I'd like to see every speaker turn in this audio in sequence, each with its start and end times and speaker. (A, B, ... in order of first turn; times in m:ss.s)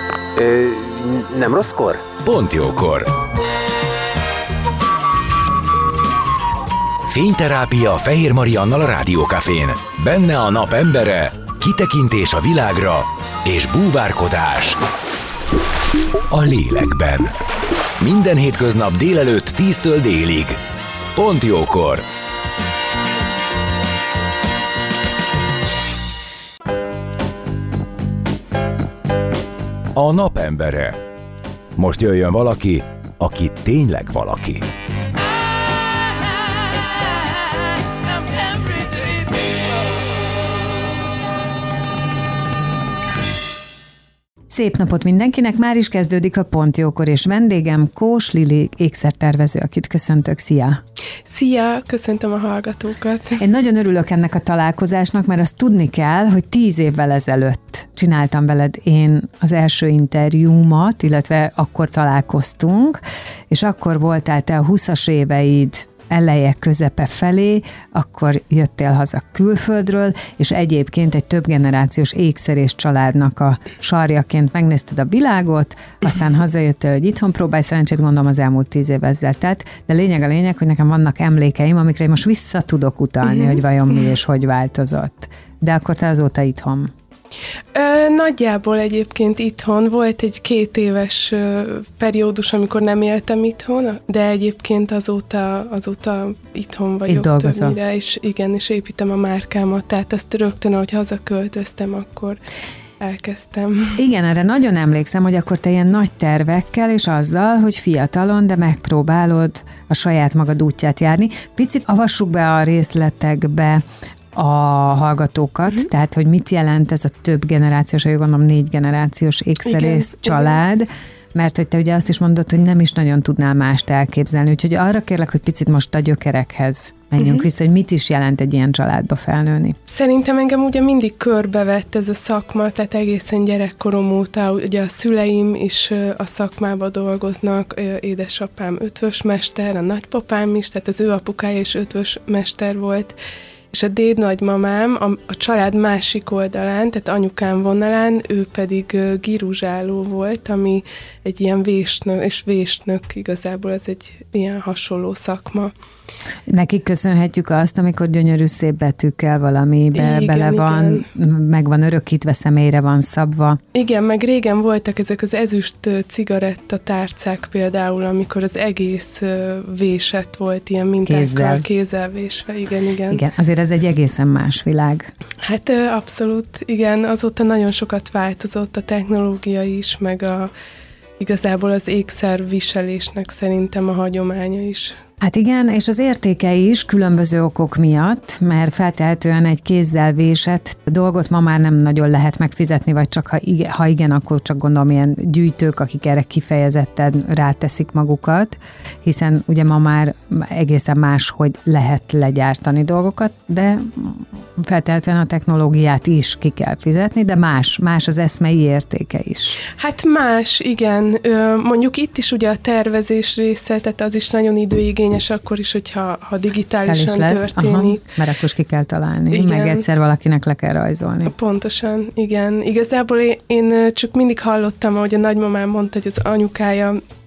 0:00.4-0:03.1 A
0:07.1-0:14.8 A
0:16.3-0:17.3 A
0:18.0-0:20.6 A
0:21.1-0:22.0 A
0:29.9-0:31.0 A
0:31.8-0:34.7 A
0:44.5-0:50.8 B
0:51.2-0:53.4 C
0:53.4-1:26.9 B
1:27.7-1:42.4 C
1:37.1-1:37.8 B
1:43.0-1:44.0 C
1:44.0-2:09.8 B
1:59.6-2:00.6 C
2:07.2-2:07.5 C
2:09.9-2:23.1 C
2:23.7-2:35.7 C
2:36.5-2:43.6 B
2:39.9-2:41.1 C
2:43.7-2:53.2 C
2:51.0-2:51.6 B
2:53.1-2:55.1 B
2:55.4-3:00.5 C
3:01.2-3:05.0 C
3:05.2-3:29.6 B
3:29.6-3:38.1 C
3:36.8-3:41.3 B
3:39.3-3:39.8 C
3:41.2-3:47.0 C